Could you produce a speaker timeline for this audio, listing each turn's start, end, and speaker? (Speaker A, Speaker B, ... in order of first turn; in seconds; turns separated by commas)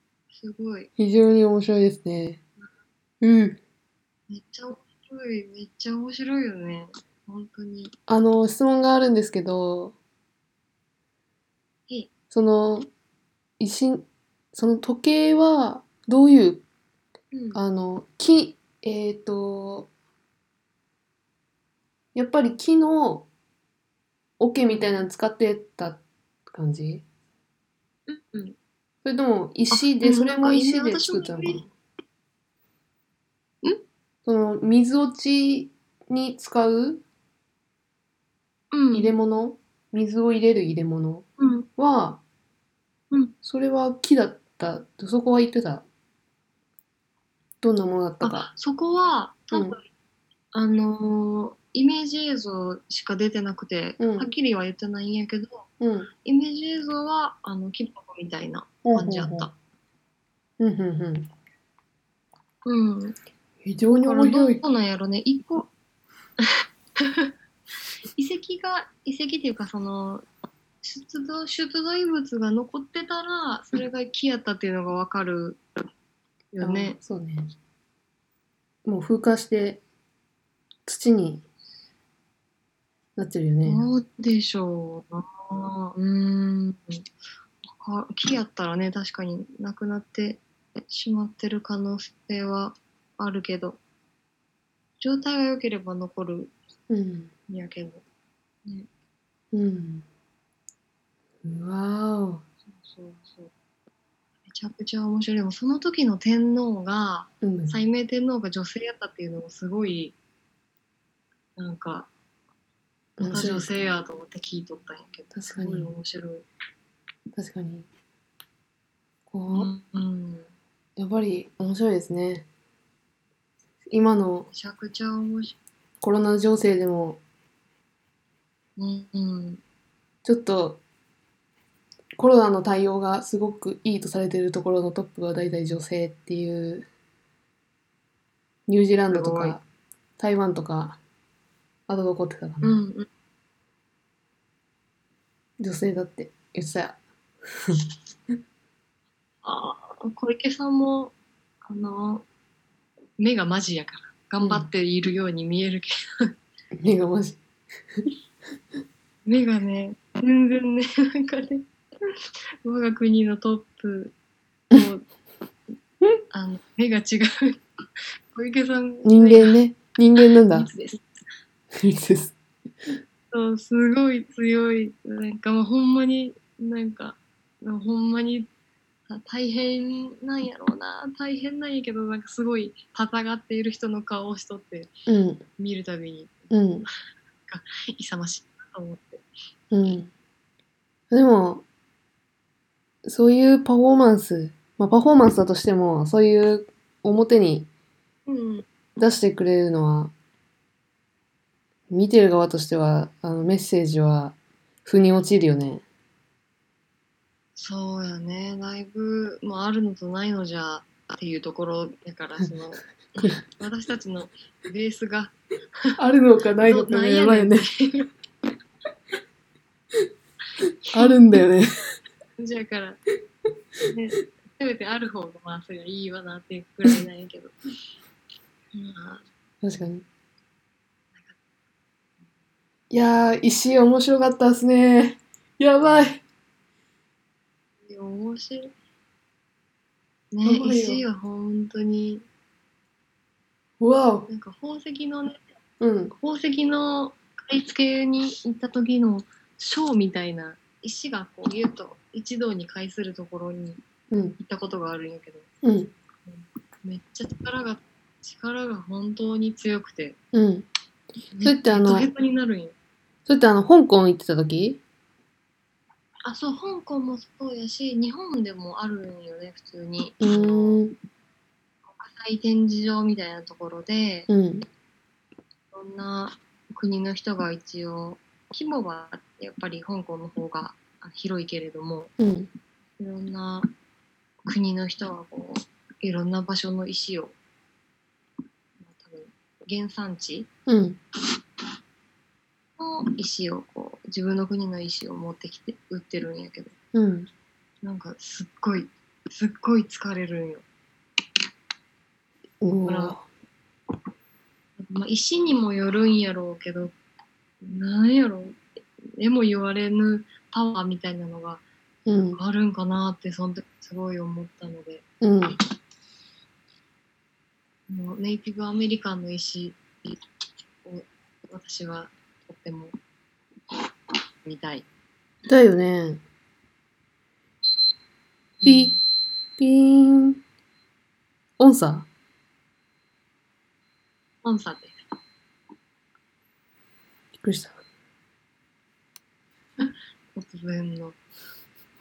Speaker A: 0.3-0.9, Speaker B: 1.0-2.4, Speaker B: 3.2-3.6, Speaker A: 4.3-7.9, Speaker B: 8.1-9.9, Speaker B: 12.3-12.9, Speaker B: 13.6-16.6, Speaker A: 17.3-17.6, Speaker B: 17.5-19.9, Speaker B: 22.1-23.3, Speaker B: 24.4-27.0, Speaker A: 24.7-25.1, Speaker A: 28.1-28.6, Speaker B: 29.1-31.7, Speaker A: 29.7-31.7, Speaker B: 34.3-37.0, Speaker A: 38.7-39.2, Speaker B: 38.9-42.2, Speaker A: 41.4-41.7, Speaker B: 43.4-45.9, Speaker B: 47.6-48.5, Speaker A: 48.2-49.9, Speaker B: 49.5-49.8, Speaker A: 50.5-55.7, Speaker B: 54.0-54.3, Speaker B: 55.8-56.1, Speaker A: 56.2-59.5, Speaker B: 58.8-59.5, Speaker B: 60.6-61.3, Speaker A: 62.6-63.2, Speaker B: 63.6-64.6, Speaker A: 63.9-65.7, Speaker A: 67.0-67.3, Speaker A: 68.2-70.2, Speaker A: 70.8-75.6, Speaker A: 76.5-77.0, Speaker B: 76.6-77.5, Speaker B: 78.8-79.8, Speaker B: 80.9-81.4, Speaker B: 83.2-83.8, Speaker A: 83.6-87.0, Speaker A: 87.8-93.8, Speaker A: 95.0-96.5, Speaker B: 96.9-97.3, Speaker A: 97.5-98.0, Speaker B: 99.5-100.0, Speaker B: 101.4-102.4, Speaker A: 102.7-103.5, Speaker A: 104.5-110.2, Speaker B: 107.4-107.8, Speaker A: 111.6-112.1, Speaker B: 113.2-113.7, Speaker A: 113.2-116.5, Speaker B: 115.3-115.9, Speaker B: 117.3-117.9, Speaker B: 119.3-119.7, Speaker A: 119.5-120.5, Speaker B: 121.0-122.5, Speaker B: 123.9-124.5, Speaker A: 124.5-125.6, Speaker B: 126.0-127.2, Speaker A: 128.8-129.6, Speaker B: 130.2-130.8, Speaker B: 132.2-136.9, Speaker B: 138.7-139.6, Speaker A: 139.1-139.6, Speaker B: 140.2-141.0, Speaker B: 141.9-142.8, Speaker A: 142.6-143.1, Speaker B: 145.6-147.0, Speaker A: 149.4-151.1, Speaker A: 151.6-152.3, Speaker A: 153.2-156.3, Speaker B: 154.4-154.7, Speaker B: 156.7-157.4, Speaker A: 159.2-162.1, Speaker A: 162.6-164.1, Speaker A: 164.7-165.1, Speaker A: 166.3-167.6, Speaker A: 168.3-169.6, Speaker B: 169.1-170.7, Speaker A: 170.4-171.0, Speaker B: 171.7-172.4, Speaker A: 173.3-178.5, Speaker A: 179.1-184.9, Speaker B: 185.1-185.4, Speaker A: 185.6-186.9, Speaker B: 186.5-186.9, Speaker A: 187.5-189.3, Speaker B: 189.7-190.1, Speaker B: 191.1-191.6, Speaker B: 193.1-197.7, Speaker A: 198.3-198.7, Speaker B: 199.0-200.1, Speaker B: 201.9-205.8, Speaker A: 207.6-215.9, Speaker B: 216.0-217.7, Speaker A: 216.6-218.1, Speaker B: 220.9-221.7, Speaker A: 222.4-223.0, Speaker A: 223.9-227.6, Speaker A: 228.7-229.3, Speaker B: 229.6-230.1, Speaker B: 232.9-236.2, Speaker A: 237.9-238.7, Speaker A: 240.3-242.3, Speaker B: 240.4-241.0, Speaker B: 243.8-244.3, Speaker A: 244.3-245.5, Speaker B: 245.8-246.1, Speaker A: 246.1-253.8, Speaker B: 254.1-254.4, Speaker A: 254.4-255.5, Speaker B: 255.6-255.9, Speaker A: 256.3-260.2, Speaker B: 260.3-260.7, Speaker A: 261.3-262.8, Speaker B: 261.4-262.1, Speaker B: 263.3-264.8, Speaker A: 266.2-270.8, Speaker B: 270.2-270.9, Speaker A: 271.9-274.3, Speaker B: 274.3-274.6, Speaker A: 275.7-282.1, Speaker B: 282.2-282.5, Speaker A: 283.0-283.7, Speaker A: 284.5-287.4, Speaker A: 288.8-290.5, Speaker B: 290.7-291.0, Speaker A: 292.8-296.7, Speaker B: 296.9-297.3, Speaker A: 297.8-300.6, Speaker B: 302.6-303.2, Speaker A: 302.9-303.2, Speaker A: 304.8-306.9, Speaker A: 307.6-308.6, Speaker A: 309.2-311.6, Speaker B: 312.1-312.4, Speaker A: 312.4-315.1, Speaker B: 315.2-315.6, Speaker A: 317.9-319.8, Speaker A: 320.8-323.0, Speaker A: 324.4-324.9, Speaker B: 325.5-326.2, Speaker A: 328.6-329.0, Speaker B: 328.6-329.0, Speaker B: 329.6-330.4, Speaker B: 331.6-332.1, Speaker A: 334.4-335.0, Speaker B: 337.4-337.8, Speaker A: 339.8-341.2